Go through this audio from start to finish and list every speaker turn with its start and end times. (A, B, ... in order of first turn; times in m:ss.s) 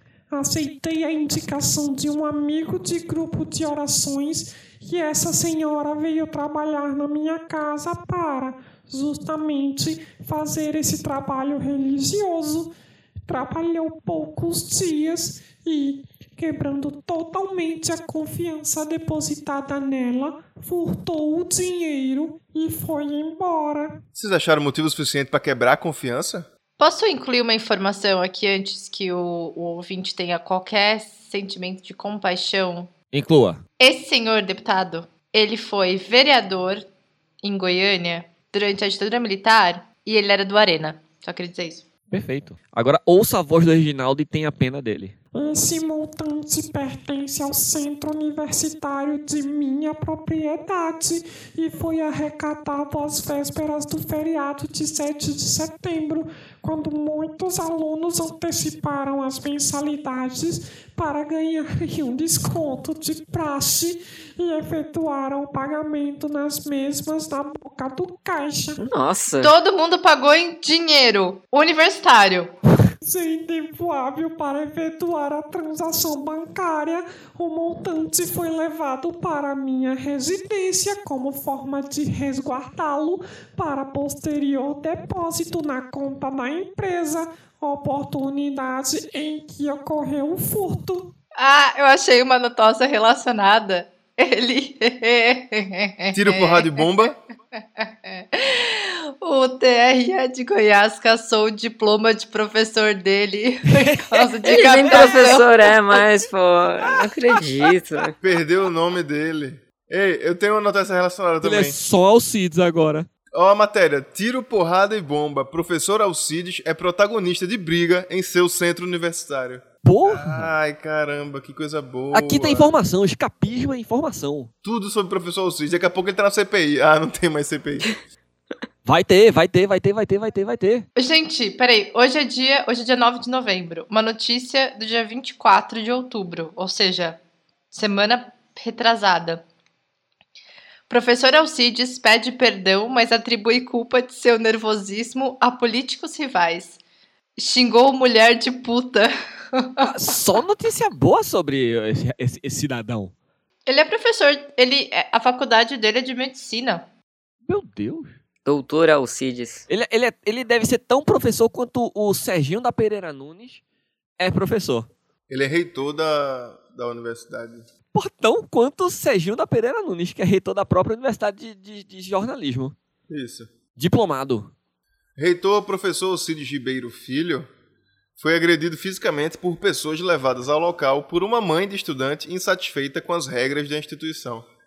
0:00.3-0:12.7 A
0:13.2-0:24.0 A
0:24.1-0:26.5 B
0:26.8-0:32.9 C
0:33.1-0:33.6 D
0:33.8-0:36.8 C
0:37.4-0:41.8 C
0:42.1-0:45.2 D
0:45.3-1:08.8 A
1:08.8-1:09.5 E
1:09.4-1:12.6 C
1:13.0-1:31.1 A
1:31.4-1:36.9 C
1:36.1-1:37.2 B
1:37.6-1:45.7 C
1:43.7-1:45.4 D
1:44.4-1:48.1 E
1:46.8-1:47.7 D
1:48.2-1:51.8 B
1:51.4-1:53.1 D
1:53.3-2:02.7 B
1:59.8-2:00.5 D
2:02.1-2:04.5 D
2:04.6-2:08.0 B
2:08.8-2:10.8 D
2:11.0-2:17.2 C
2:17.7-2:19.4 C
2:20.9-2:26.8 C
2:27.4-2:29.9 C
2:29.8-2:33.1 D
2:33.7-2:36.9 C
2:37.5-2:38.1 D
2:38.4-2:39.6 E
2:39.7-2:43.6 D
2:44.2-2:44.9 D
2:45.3-2:47.6 B
2:47.9-2:52.8 D
2:53.1-2:53.5 B
2:53.8-2:54.5 D
2:55.2-2:57.5 B
2:58.2-3:04.5 B